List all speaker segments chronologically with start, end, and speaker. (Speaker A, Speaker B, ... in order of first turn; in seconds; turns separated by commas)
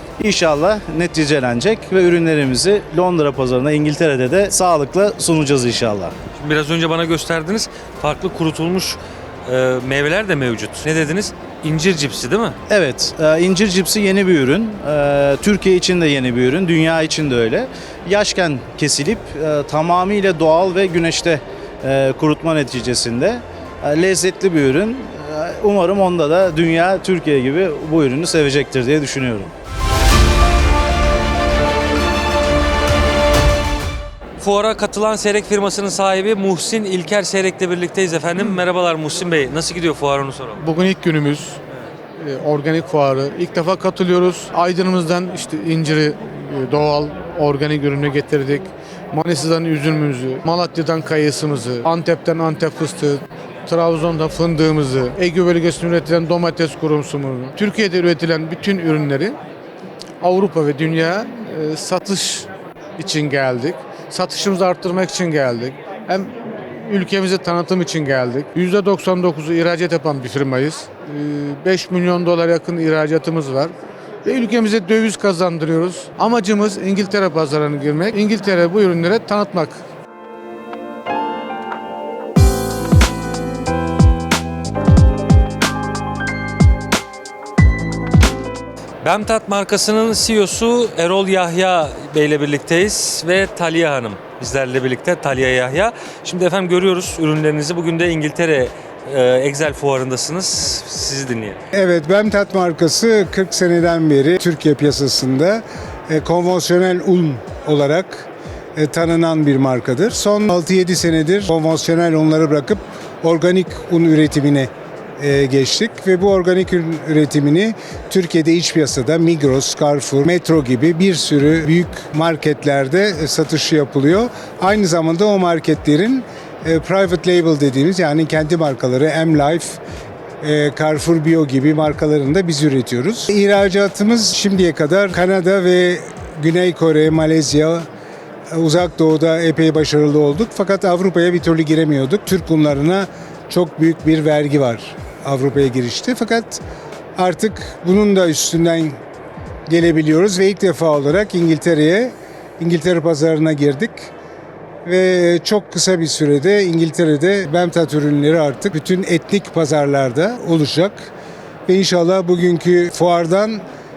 Speaker A: 0.2-6.1, Speaker B: 6.4-12.6, Speaker A: 12.7-29.5, Speaker B: 34.4-40.6, Speaker C: 40.6-41.6, Speaker C: 42.2-59.4, Speaker C: 60.2-66.3, Speaker C: 66.8-73.7, Speaker C: 74.2-79.8, Speaker B: 89.0-101.6, Speaker D: 101.7-129.8, Speaker D: 130.4-137.8, Speaker D: 138.5-146.6, Speaker D: 147.2-149.0, Speaker D: 149.7-154.1, Speaker D: 154.8-161.1, Speaker D: 161.7-163.6